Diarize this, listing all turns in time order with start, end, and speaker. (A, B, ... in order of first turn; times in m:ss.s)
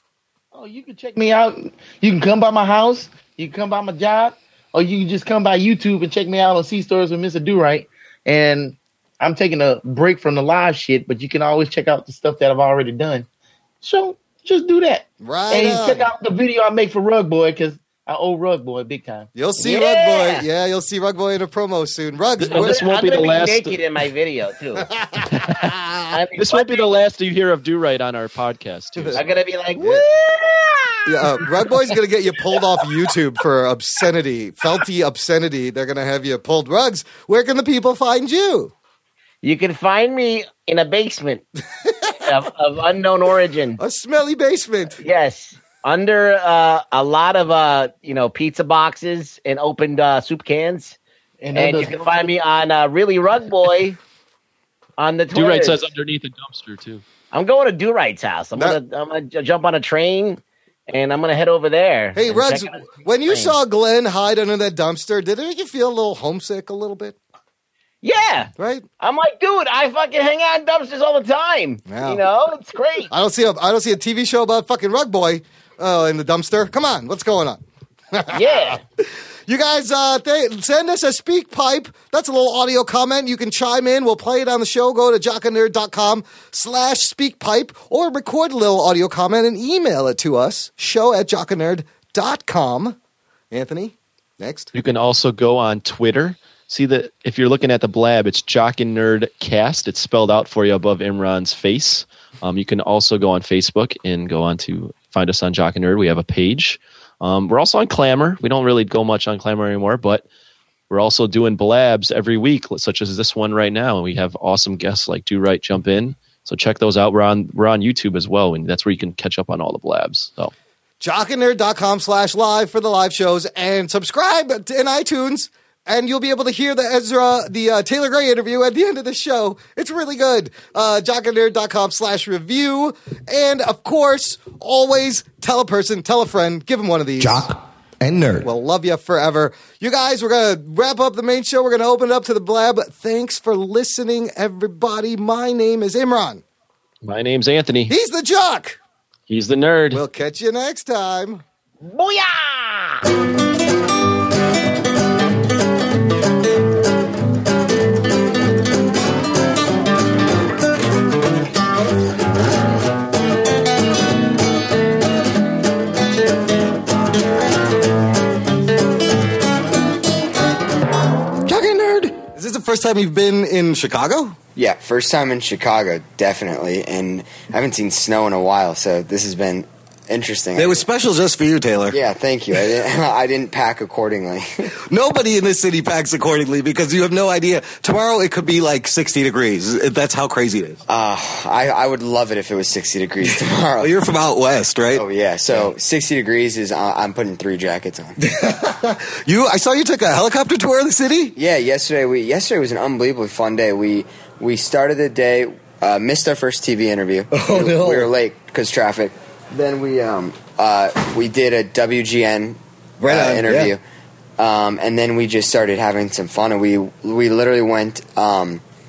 0:00.5-0:13.3 A
0:13.8-0:19.3 A
0:15.2-0:16.1 B
0:19.4-0:22.8 B
0:19.6-0:20.4 C
0:22.4-0:23.8 D
0:22.5-0:24.9 C
0:24.8-0:26.2 B
0:25.3-0:25.7 D
0:26.1-0:26.9 C
0:26.4-0:29.2 D
0:29.0-0:29.2 B
0:29.2-0:31.8 C
0:29.8-0:30.0 B
0:31.0-0:38.7 B
0:39.4-0:41.5 C
0:41.8-0:42.2 B
0:42.1-0:43.8 C
0:43.8-0:45.0 B
0:45.0-0:51.0 C
0:51.4-0:52.1 A
0:51.5-0:54.0 C
0:55.0-0:55.8 C
0:55.3-0:57.0 D
0:57.3-1:03.6 C
1:02.2-1:07.2 B
1:08.0-1:13.1 C
1:08.6-1:08.8 B
1:11.9-1:12.2 B
1:13.1-1:18.8 B
1:18.3-1:18.8 C
1:19.5-1:33.0 B
1:33.5-1:34.7 B
1:34.7-1:50.2 D
1:50.9-2:00.5 D
2:01.0-2:17.5 B
2:17.2-2:18.4 E
2:18.2-2:26.4 B
2:27.0-2:27.9 D
2:27.9-2:28.8 B
2:29.3-2:30.0 D
2:29.9-2:31.4 B
2:31.8-2:33.0 C
2:51.5-2:52.2 E
2:52.2-2:54.4 B
2:54.6-3:00.9 F
3:00.6-3:02.0 B
3:01.9-3:04.7 F
3:04.9-3:10.8 B
3:10.9-3:13.9 F
3:13.8-3:15.7 B
3:14.9-3:18.2 F
3:18.2-3:21.4 B
3:21.4-3:33.8 F
3:27.3-3:28.1 B
3:33.0-3:33.7 B
3:34.4-3:38.6 F